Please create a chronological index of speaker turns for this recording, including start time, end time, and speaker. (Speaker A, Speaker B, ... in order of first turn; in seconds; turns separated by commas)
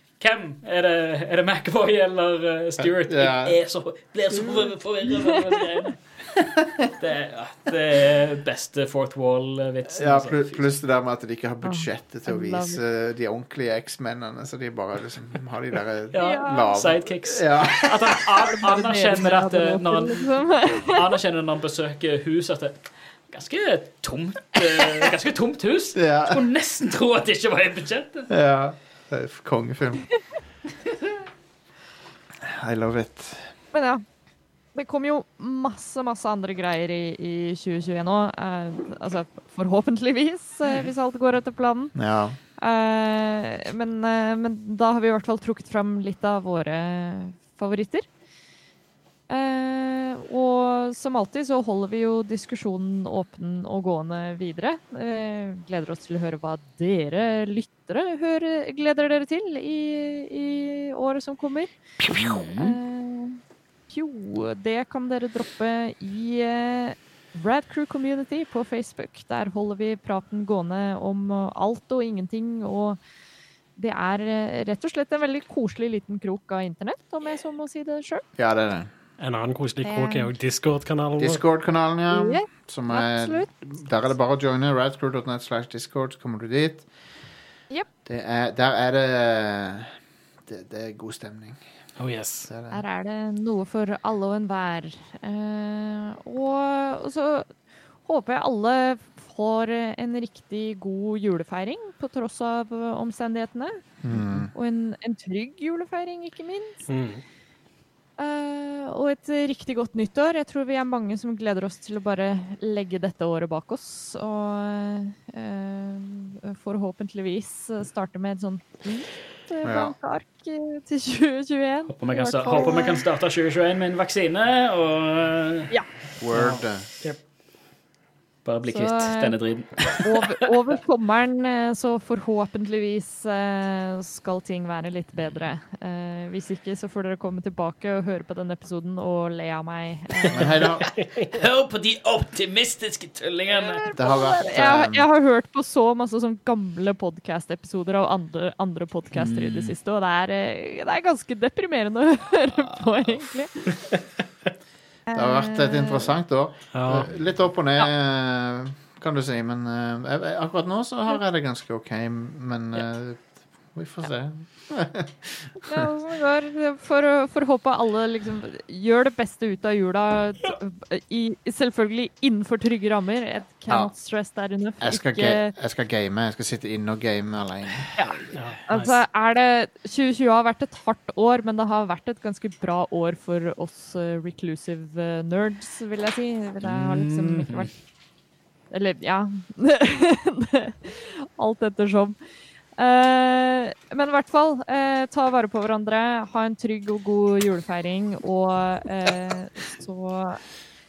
Speaker A: 0.2-10.6, Speaker B: 2.8-3.6, Speaker B: 9.9-18.2, Speaker C: 11.6-12.8, Speaker A: 16.1-28.3, Speaker C: 16.2-16.7, Speaker C: 18.5-21.1, Speaker B: 25.9-26.4, Speaker B: 28.3-30.0, Speaker B: 32.4-33.5, Speaker C: 33.7-34.0, Speaker C: 34.7-41.9, Speaker B: 41.9-42.4, Speaker C: 42.6-48.1, Speaker C: 49.3-61.7, Speaker B: 62.0-62.4, Speaker A: 62.1-62.8, Speaker C: 62.5-73.0, Speaker C: 73.8-78.2, Speaker B: 78.4-78.9, Speaker D: 79.2-81.4, Speaker C: 79.8-80.3, Speaker B: 81.2-86.9, Speaker C: 82.1-83.5, Speaker B: 88.0-89.9, Speaker B: 90.5-91.6, Speaker D: 92.0-92.5, Speaker B: 92.5-92.8, Speaker C: 92.7-97.5, Speaker C: 98.0-106.9, Speaker B: 104.0-104.5, Speaker D: 106.9-107.2, Speaker C: 108.2-123.0, Speaker B: 119.6-119.9, Speaker A: 121.9-125.7, Speaker B: 126.2-126.9, Speaker A: 126.3-126.6, Speaker A: 128.4-130.1, Speaker C: 128.7-140.6, Speaker B: 140.3-140.9, Speaker D: 140.4-141.3, Speaker A: 141.3-143.8, Speaker C: 143.5-153.7, Speaker B: 143.9-145.1, Speaker A: 149.1-149.7, Speaker A: 152.5-153.1, Speaker C: 155.1-156.1, Speaker B: 155.1-165.9, Speaker D: 156.7-157.1, Speaker C: 165.6-175.6, Speaker B: 174.8-177.9, Speaker C: 178.0-187.7, Speaker D: 178.3-179.0, Speaker A: 186.6-187.7, Speaker C: 188.7-192.2, Speaker C: 192.8-200.4